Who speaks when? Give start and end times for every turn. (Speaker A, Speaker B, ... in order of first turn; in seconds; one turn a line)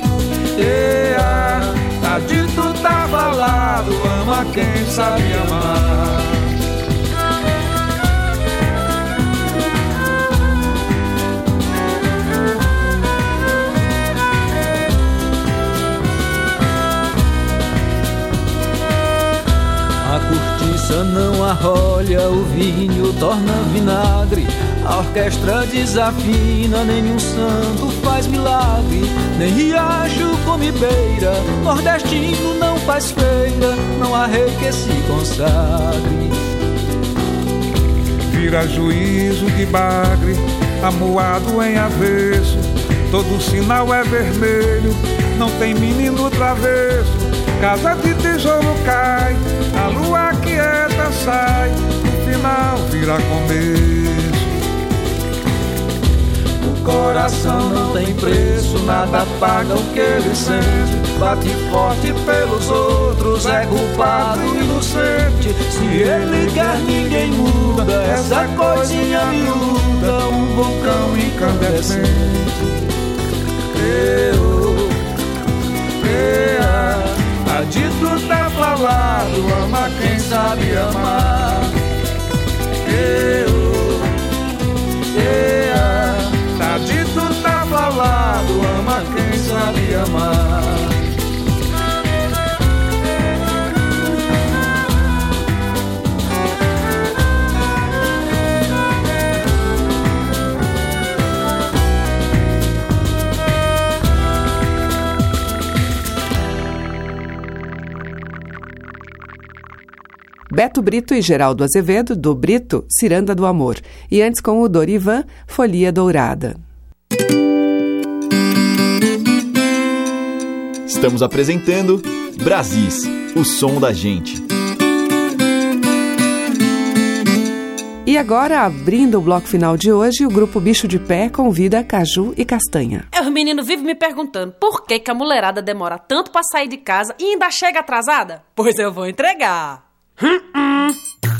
Speaker A: 0.6-6.2
Speaker B: 3.6-5.8
Speaker A: 20.0-36.4
Speaker B: 38.3-54.5
Speaker A: 56.6-72.6
Speaker B: 63.4-69.5
Speaker B: 71.1-72.0
Speaker A: 73.7-75.0
Speaker A: 76.0-81.7
Speaker A: 82.8-84.1
Speaker A: 85.1-91.0
Speaker C: 110.5-116.6
Speaker D: 120.9-124.4
Speaker C: 128.1-133.1
Speaker E: 133.1-140.9